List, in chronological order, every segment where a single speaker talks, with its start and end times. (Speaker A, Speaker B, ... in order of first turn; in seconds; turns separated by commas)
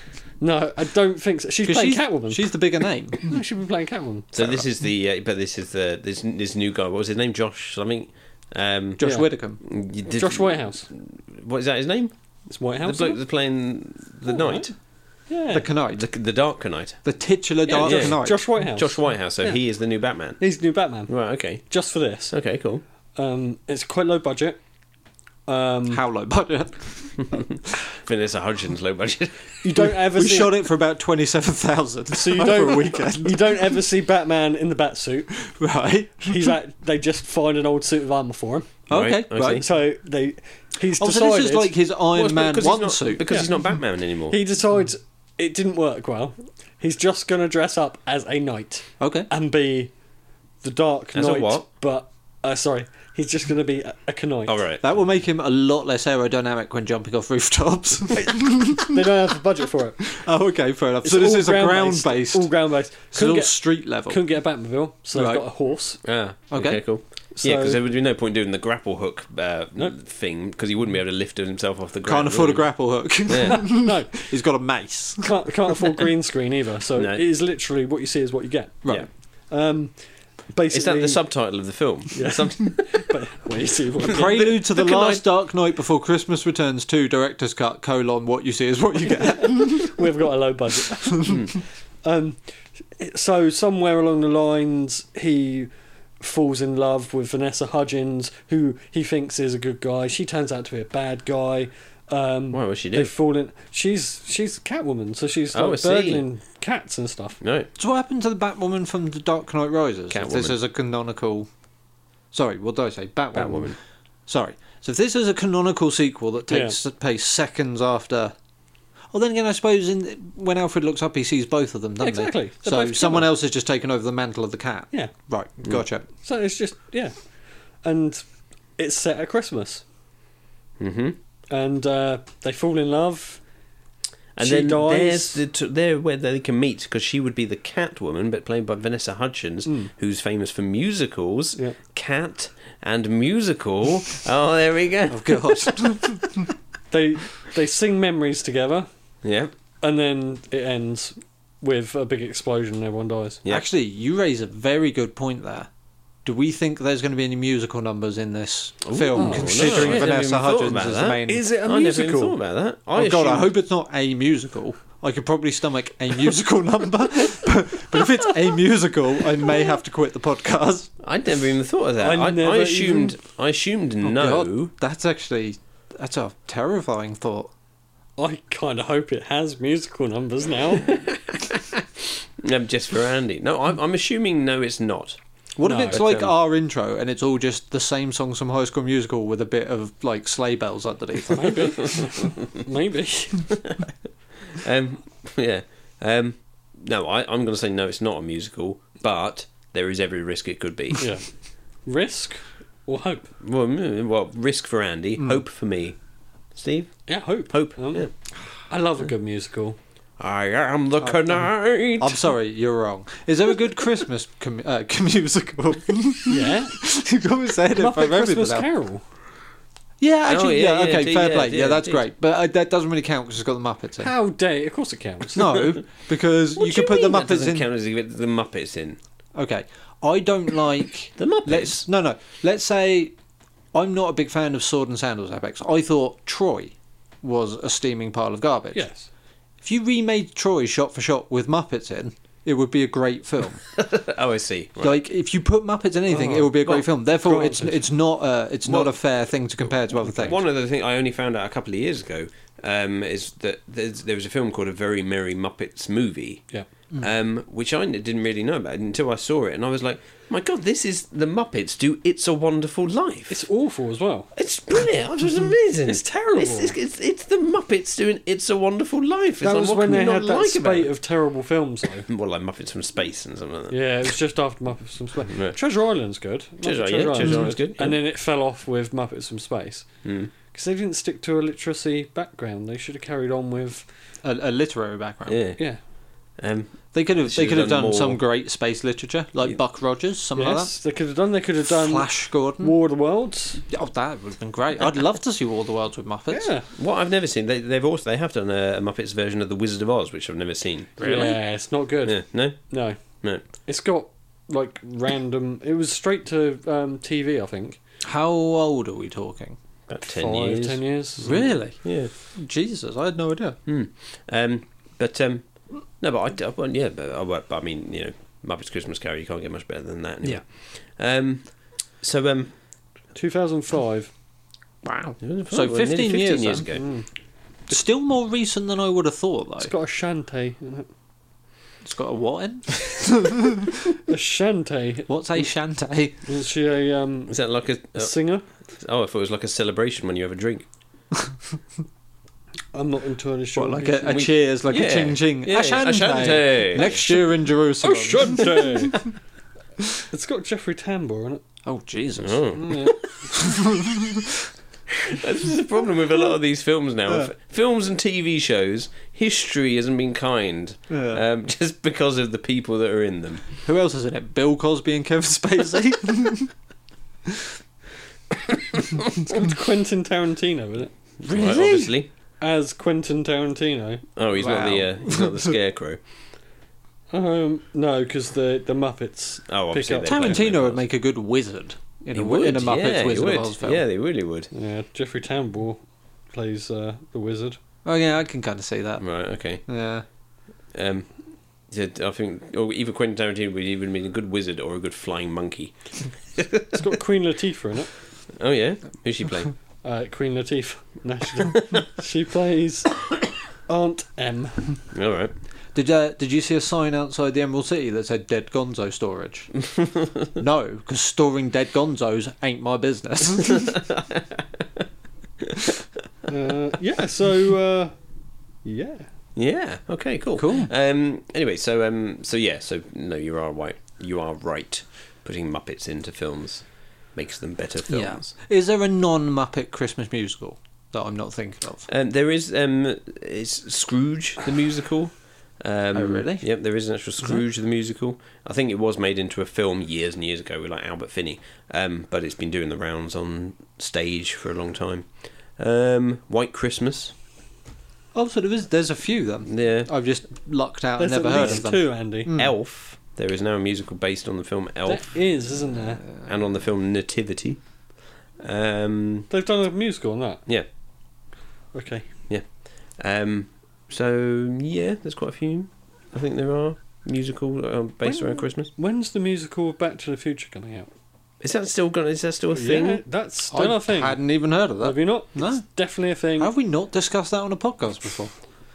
Speaker A: 0.4-2.5, Speaker B: 1.6-3.4, Speaker A: 3.2-4.4, Speaker C: 4.3-9.0, Speaker B: 9.0-9.6, Speaker A: 9.0-9.3, Speaker C: 9.6-12.1, Speaker A: 10.1-10.9, Speaker A: 12.5-13.2, Speaker C: 12.8-14.7, Speaker A: 14.3-14.7, Speaker A: 15.3-15.7, Speaker B: 15.5-16.1, Speaker C: 15.9-17.0, Speaker B: 17.0-18.4, Speaker A: 17.7-19.6, Speaker C: 17.7-20.4, Speaker A: 20.4-22.3, Speaker C: 21.1-21.6, Speaker C: 22.3-22.8, Speaker A: 23.1-24.6, Speaker A: 25.5-26.0, Speaker B: 25.9-27.2, Speaker C: 27.9-29.8, Speaker A: 29.6-30.6, Speaker B: 30.1-33.8, Speaker A: 32.1-35.3, Speaker B: 35.4-36.5, Speaker A: 36.2-38.8, Speaker B: 38.9-39.7, Speaker C: 38.9-39.6, Speaker A: 39.4-41.7, Speaker B: 41.0-43.3, Speaker C: 42.1-44.4, Speaker A: 43.3-43.5, Speaker A: 44.3-49.9, Speaker B: 49.0-49.3, Speaker A: 50.6-54.6, Speaker C: 51.1-51.6, Speaker C: 54.5-54.8, Speaker B: 54.8-59.0, Speaker A: 58.6-60.1, Speaker B: 60.1-62.5, Speaker A: 61.0-66.0, Speaker B: 63.1-64.2, Speaker B: 65.1-65.4, Speaker C: 66.0-72.7, Speaker B: 66.5-66.8, Speaker A: 67.3-67.8, Speaker B: 72.0-75.4, Speaker C: 73.3-73.7, Speaker A: 73.5-74.3, Speaker A: 75.2-84.5, Speaker C: 76.9-77.2, Speaker C: 80.7-83.0, Speaker C: 84.0-85.2, Speaker B: 84.0-89.9, Speaker A: 89.6-91.4, Speaker B: 91.0-91.4, Speaker C: 91.3-91.5, Speaker A: 92.0-107.4, Speaker C: 102.5-103.1, Speaker C: 105.5-106.2, Speaker C: 107.4-107.7, Speaker B: 107.8-111.5, Speaker C: 110.1-110.5, Speaker B: 112.3-113.7, Speaker C: 113.3-113.8, Speaker B: 114.3-118.3, Speaker A: 116.5-116.8, Speaker B: 119.1-126.1, Speaker A: 122.0-123.3, Speaker A: 126.2-127.2, Speaker A: 127.8-128.2, Speaker A: 128.8-129.8, Speaker C: 130.8-131.2, Speaker A: 131.5-133.4, Speaker C: 134.3-146.1, Speaker A: 134.4-135.4, Speaker A: 139.7-139.9, Speaker B: 145.1-146.4, Speaker A: 146.9-148.9, Speaker C: 149.2-149.5, Speaker A: 149.8-153.4, Speaker B: 153.5-155.7, Speaker B: 156.2-161.4, Speaker C: 158.8-163.5, Speaker A: 159.1-160.1, Speaker A: 161.3-162.3, Speaker B: 162.9-170.9, Speaker C: 171.0-174.7, Speaker A: 172.0-173.2, Speaker B: 174.0-177.5, Speaker A: 178.2-181.0, Speaker C: 180.9-185.2, Speaker B: 185.6-191.9, Speaker A: 185.6-186.0, Speaker C: 185.9-186.3, Speaker A: 191.3-193.6, Speaker C: 194.5-201.1, Speaker A: 201.0-201.2, Speaker A: 201.8-203.3, Speaker C: 203.4-206.0, Speaker C: 206.5-208.1, Speaker A: 207.1-208.1, Speaker A: 208.7-209.8, Speaker C: 210.2-212.2, Speaker B: 211.0-218.7, Speaker A: 216.3-216.8, Speaker A: 217.8-219.0, Speaker B: 220.0-224.1, Speaker C: 220.3-222.0, Speaker A: 224.0-225.5, Speaker B: 225.3-227.7, Speaker C: 226.6-229.0, Speaker B: 229.3-233.1, Speaker C: 231.2-231.8, Speaker B: 233.7-238.8, Speaker A: 238.7-239.1, Speaker B: 239.6-243.6, Speaker C: 243.8-245.0, Speaker B: 244.8-250.4, Speaker A: 246.1-247.9, Speaker C: 248.6-249.0, Speaker C: 250.1-256.4, Speaker C: 257.0-263.4, Speaker A: 263.3-264.3, Speaker C: 264.3-270.9, Speaker A: 265.8-266.7, Speaker A: 269.4-272.1, Speaker C: 272.1-273.8, Speaker A: 273.7-279.9, Speaker C: 275.3-275.6, Speaker C: 276.6-278.0, Speaker B: 277.2-277.5, Speaker C: 280.0-280.3, Speaker A: 280.5-283.9, Speaker B: 284.2-285.4, Speaker C: 285.3-285.6, Speaker C: 286.4-288.2, Speaker B: 286.9-290.7, Speaker A: 290.4-293.6, Speaker B: 291.6-292.7, Speaker B: 293.7-296.5, Speaker A: 296.3-296.6, Speaker C: 296.8-301.3, Speaker B: 301.0-301.4, Speaker A: 301.0-303.0, Speaker C: 302.0-302.7, Speaker A: 303.6-307.8, Speaker B: 308.0-309.6, Speaker C: 309.9-310.8, Speaker A: 310.1-311.5, Speaker B: 311.2-313.6, Speaker C: 311.8-312.1, Speaker C: 313.6-322.5, Speaker A: 323.1-324.1, Speaker B: 324.9-326.7, Speaker C: 325.2-326.8, Speaker A: 326.7-327.1, Speaker B: 327.7-329.7, Speaker A: 329.6-330.9, Speaker B: 331.8-333.3, Speaker A: 334.1-335.1, Speaker B: 335.1-336.2, Speaker A: 336.2-337.4, Speaker C: 337.3-338.1, Speaker A: 337.9-338.4, Speaker C: 338.7-340.7, Speaker A: 342.7-344.2, Speaker B: 343.6-348.9, Speaker C: 344.1-347.0, Speaker A: 346.8-347.2, Speaker A: 347.8-349.0, Speaker A: 350.1-351.4, Speaker B: 351.6-352.5, Speaker C: 352.2-353.0, Speaker A: 352.6-353.0, Speaker B: 353.5-354.1, Speaker C: 355.1-363.5, Speaker B: 360.9-361.2, Speaker B: 363.6-366.5, Speaker A: 369.2-370.9, Speaker C: 371.2-372.1, Speaker B: 371.3-371.9, Speaker A: 372.4-374.0, Speaker C: 374.1-376.0, Speaker B: 374.4-375.5, Speaker A: 377.1-380.4, Speaker C: 379.5-380.8, Speaker B: 380.0-383.8, Speaker C: 382.1-384.5, Speaker A: 384.5-385.8, Speaker A: 386.3-387.6, Speaker B: 387.8-390.0, Speaker C: 389.0-389.6, Speaker C: 390.7-391.1, Speaker C: 391.7-396.8, Speaker A: 396.7-397.9, Speaker C: 398.4-399.5, Speaker A: 399.8-403.1, Speaker A: 403.7-404.8, Speaker C: 404.9-405.3, Speaker B: 405.7-409.5, Speaker C: 409.7-410.2, Speaker B: 410.4-413.8, Speaker C: 413.9-414.2, Speaker A: 416.3-417.9, Speaker A: 418.6-419.1, Speaker C: 419.4-428.3, Speaker B: 420.4-420.7, Speaker B: 427.9-431.9, Speaker C: 431.9-447.1, Speaker B: 435.9-436.5, Speaker B: 448.1-452.5, Speaker C: 449.4-449.9, Speaker A: 451.0-452.3, Speaker C: 451.3-451.6, Speaker C: 452.3-455.2, Speaker A: 454.9-456.1, Speaker C: 456.2-457.6, Speaker C: 458.4-459.3, Speaker A: 459.3-460.4, Speaker A: 461.7-462.1, Speaker C: 462.3-468.7, Speaker A: 468.0-470.9, Speaker C: 471.4-473.0, Speaker A: 472.5-476.5, Speaker B: 473.5-475.6, Speaker B: 476.4-478.3